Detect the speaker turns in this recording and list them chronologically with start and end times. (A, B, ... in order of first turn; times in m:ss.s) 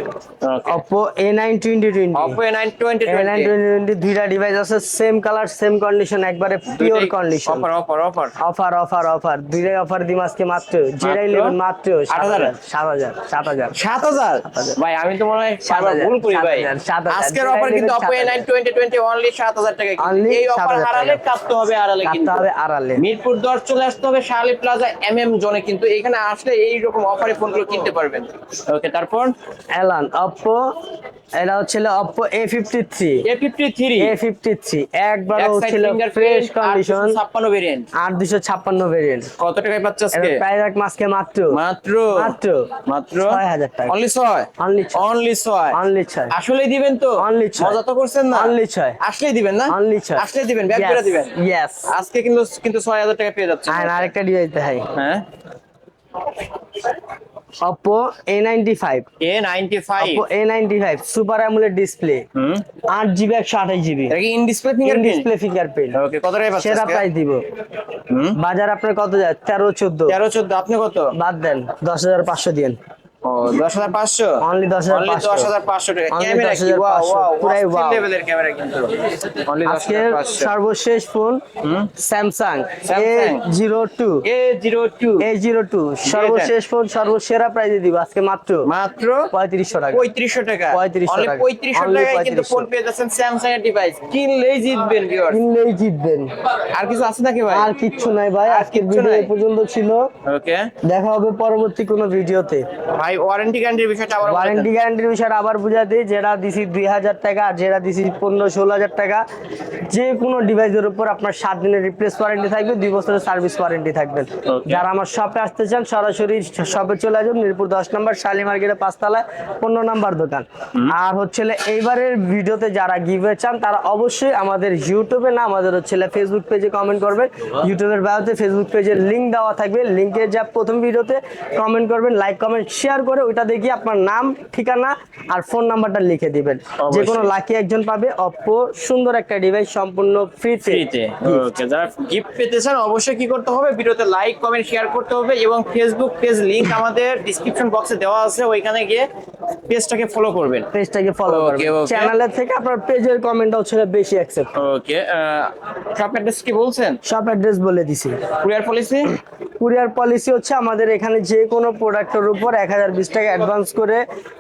0:00.4-0:00.8 A
0:00.7-0:02.4 B
0:02.1-0:03.5 A
0:03.1-0:07.7 B
0:06.7-0:08.4 A
0:08.4-0:13.8 B
0:11.0-0:11.6 A
0:12.1-0:12.5 A
0:13.7-0:29.3 A
0:14.4-0:14.8 B
0:15.6-0:18.5 B
0:20.0-0:21.2 B
0:22.0-0:23.0 B
0:29.8-0:30.7 B
0:31.4-0:33.2 B
0:33.2-0:34.1 A
0:34.0-0:37.2 B
0:35.3-0:37.9 A
0:38.0-0:39.3 B
0:39.4-0:40.4 A
0:40.1-0:41.6 B
0:41.5-0:45.8 A
0:42.1-0:43.9 B
0:44.6-0:45.0 B
0:45.7-0:46.4 B
0:46.3-0:51.3 A
0:47.2-0:47.8 B
0:48.3-0:49.0 B
0:49.7-0:51.9 B
0:51.9-0:54.1 A
0:53.7-0:54.9 B
0:54.9-0:55.2 A
0:57.6-0:59.1 B
0:59.2-1:00.2 A
1:00.0-1:02.3 B
1:02.4-1:02.6 A
1:02.9-1:04.2 B
1:04.1-1:05.3 A
1:04.8-1:06.0 B
1:05.9-1:07.0 A
1:06.6-1:07.5 B
1:08.1-1:08.4 A
1:08.4-1:10.2 B
1:10.1-1:11.1 A
1:11.1-1:12.8 B
1:13.2-1:20.5 A
1:14.4-1:15.5 B
1:16.1-1:18.1 B
1:19.6-1:21.4 B
1:21.6-1:21.9 A
1:22.0-1:24.3 B
1:22.8-1:23.5 A
1:24.2-1:25.3 A
1:25.2-1:28.7 B
1:26.0-1:26.5 A
1:28.6-1:29.3 A
1:29.3-1:30.0 B
1:29.9-1:35.4 A
1:30.7-1:32.7 B
1:35.3-1:36.3 B
1:36.7-1:37.7 A
1:37.5-1:40.1 B
1:38.4-1:39.3 A
1:40.2-1:40.7 A
1:40.8-1:42.7 B
1:42.9-1:44.8 A
1:44.2-1:49.2 B
1:49.9-2:21.5 B
1:54.4-1:54.8 A
2:16.8-2:17.3 A
2:20.6-2:29.1 A
2:29.7-2:30.7 A
2:30.7-2:34.5 B
2:31.3-2:32.2 A
2:34.6-2:37.0 A
2:37.0-2:38.2 B
2:38.3-2:39.1 A
2:39.6-2:44.0 B